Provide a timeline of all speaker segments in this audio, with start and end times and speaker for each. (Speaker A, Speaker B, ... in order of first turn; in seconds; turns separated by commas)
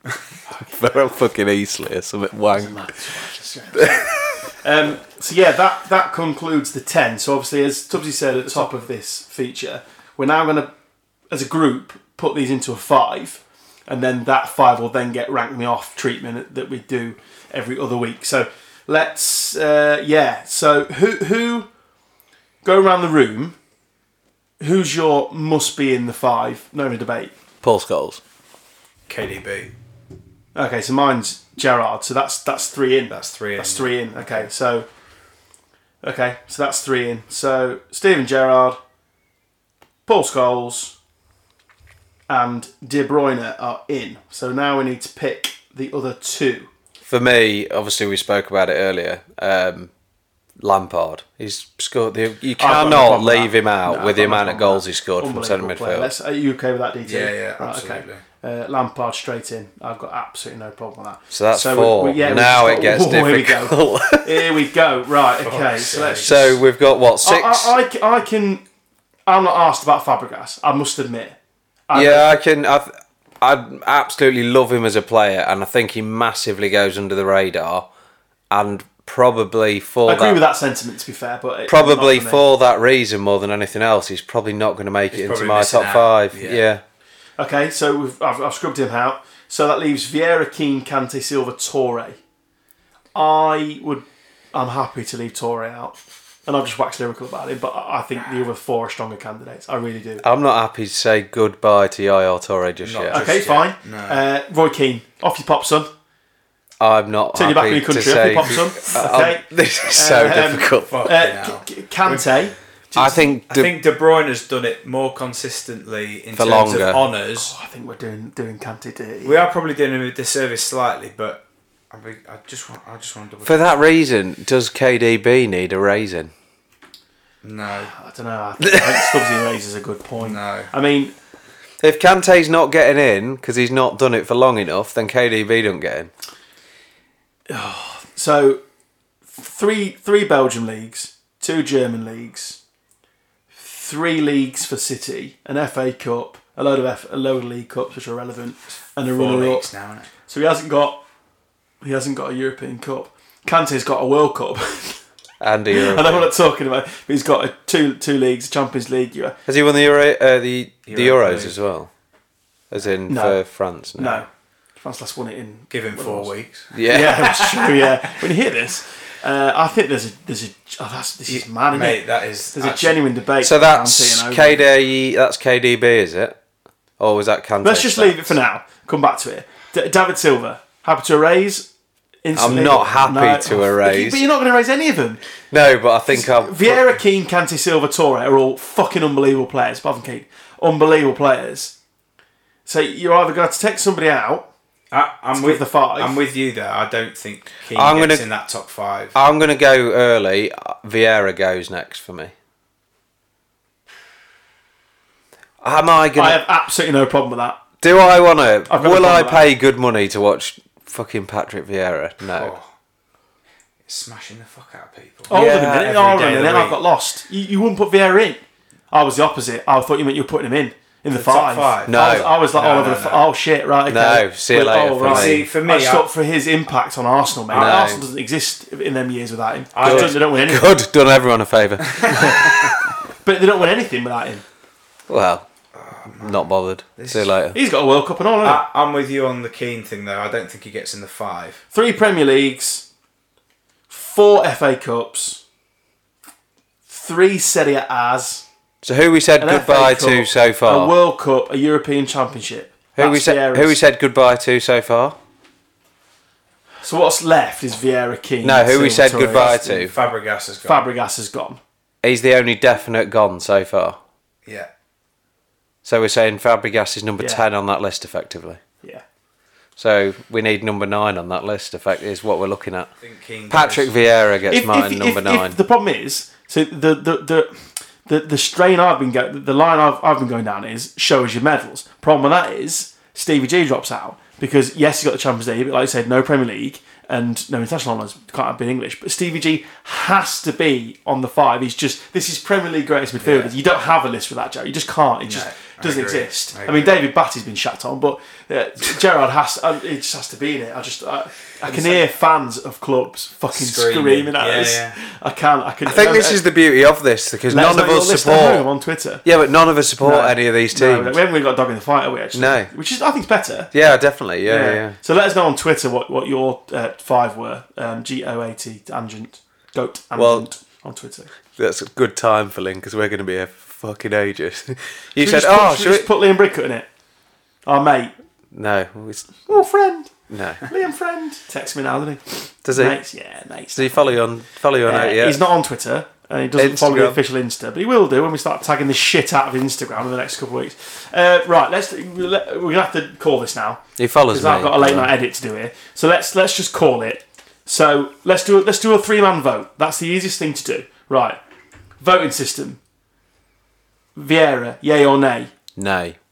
Speaker A: 0.5-2.9, Speaker B: 2.5-10.7, Speaker A: 3.7-4.2, Speaker B: 11.3-21.7, Speaker B: 22.6-23.6, Speaker B: 24.6-27.3, Speaker A: 27.6-28.2, Speaker C: 29.1-29.7, Speaker B: 30.5-34.9, Speaker C: 33.1-34.5, Speaker B: 36.0-38.8, Speaker B: 40.0-40.9, Speaker B: 42.3-46.7, Speaker A: 47.0-49.9, Speaker A: 50.6-56.1, Speaker B: 52.6-66.6, Speaker C: 57.0-58.2, Speaker A: 61.3-64.5, Speaker C: 65.4-66.5, Speaker A: 66.2-67.8, Speaker B: 67.2-68.6, Speaker B: 69.3-71.4, Speaker B: 71.9-72.3, Speaker A: 71.9-77.9, Speaker A: 78.5-80.4, Speaker B: 80.0-82.4, Speaker A: 81.7-86.8, Speaker C: 85.1-86.6, Speaker B: 87.4-92.2, Speaker B: 93.1-100.2, Speaker A: 100.2-103.3, Speaker C: 102.8-104.2, Speaker B: 103.1-105.9, Speaker A: 106.8-111.0, Speaker B: 107.3-113.3, Speaker C: 110.9-112.3, Speaker A: 112.9-113.7, Speaker C: 113.5-117.5, Speaker A: 116.3-117.0, Speaker B: 117.3-119.4, Speaker C: 119.2-123.6, Speaker A: 123.4-126.3, Speaker C: 127.4-127.9, Speaker B: 127.9-131.1, Speaker C: 130.2-130.7, Speaker A: 131.8-136.1, Speaker B: 137.5-138.6, Speaker B: 139.3-142.6, Speaker B: 143.5-149.7, Speaker C: 149.1-150.1, Speaker B: 150.3-151.0, Speaker B: 151.8-155.0, Speaker A: 155.4-156.3, Speaker B: 155.7-159.4, Speaker A: 159.4-161.9, Speaker C: 160.9-161.5, Speaker A: 162.7-164.2, Speaker B: 163.1-163.4, Speaker B: 163.9-164.3, Speaker B: 164.8-174.6, Speaker C: 165.7-167.8, Speaker A: 166.7-167.5, Speaker C: 171.3-173.0, Speaker A: 173.4-176.4, Speaker A: 177.0-178.3, Speaker B: 177.6-181.7, Speaker B: 182.2-185.2, Speaker A: 182.3-184.2, Speaker A: 185.5-186.9, Speaker B: 186.1-191.7, Speaker B: 192.7-194.5, Speaker C: 194.9-199.1, Speaker B: 195.3-196.2, Speaker A: 197.7-198.2, Speaker A: 199.1-202.3, Speaker A: 205.6-206.4, Speaker B: 206.1-207.6, Speaker A: 207.8-212.5, Speaker B: 208.7-209.5, Speaker C: 212.3-212.7, Speaker C: 213.8-216.8, Speaker A: 215.3-216.0, Speaker B: 215.3-230.7, Speaker C: 221.1-222.0, Speaker A: 221.9-222.3, Speaker C: 222.5-223.2, Speaker A: 223.9-225.5, Speaker C: 225.0-226.1, Speaker C: 227.5-227.8, Speaker A: 227.5-228.0, Speaker C: 229.7-230.2, Speaker A: 229.8-232.8, Speaker C: 231.8-232.7, Speaker B: 232.1-232.5, Speaker B: 233.2-234.4, Speaker A: 235.1-235.5, Speaker C: 235.8-236.4, Speaker A: 236.1-237.6, Speaker C: 237.0-237.3, Speaker B: 237.5-238.6, Speaker C: 238.4-241.6, Speaker B: 241.7-242.9, Speaker B: 243.9-245.4, Speaker B: 246.9-248.4, Speaker A: 248.8-250.9, Speaker B: 249.4-253.8, Speaker A: 252.9-255.2, Speaker B: 256.8-259.9, Speaker A: 258.4-259.9, Speaker C: 259.4-260.8, Speaker B: 260.6-261.6, Speaker A: 262.0-264.0, Speaker A: 265.8-268.6, Speaker B: 267.2-267.4, Speaker A: 269.8-272.9, Speaker C: 273.0-273.9, Speaker A: 273.5-275.6, Speaker B: 274.5-306.4, Speaker C: 293.2-293.5, Speaker C: 295.2-296.9, Speaker C: 301.7-302.0, Speaker C: 303.5-305.0, Speaker A: 305.9-308.6, Speaker B: 307.5-309.2, Speaker A: 309.2-311.2, Speaker B: 310.0-313.7, Speaker A: 312.3-312.7, Speaker A: 313.7-314.9, Speaker B: 314.4-321.3, Speaker A: 320.1-320.5, Speaker A: 321.6-326.1, Speaker B: 325.2-326.9, Speaker B: 327.6-328.1, Speaker A: 328.5-329.6, Speaker B: 329.5-334.1, Speaker A: 330.3-330.6, Speaker A: 332.6-333.0, Speaker A: 333.7-335.4, Speaker B: 334.8-351.4, Speaker A: 336.6-337.2, Speaker A: 344.0-345.1, Speaker B: 352.0-352.8, Speaker B: 354.1-355.5, Speaker A: 355.8-356.2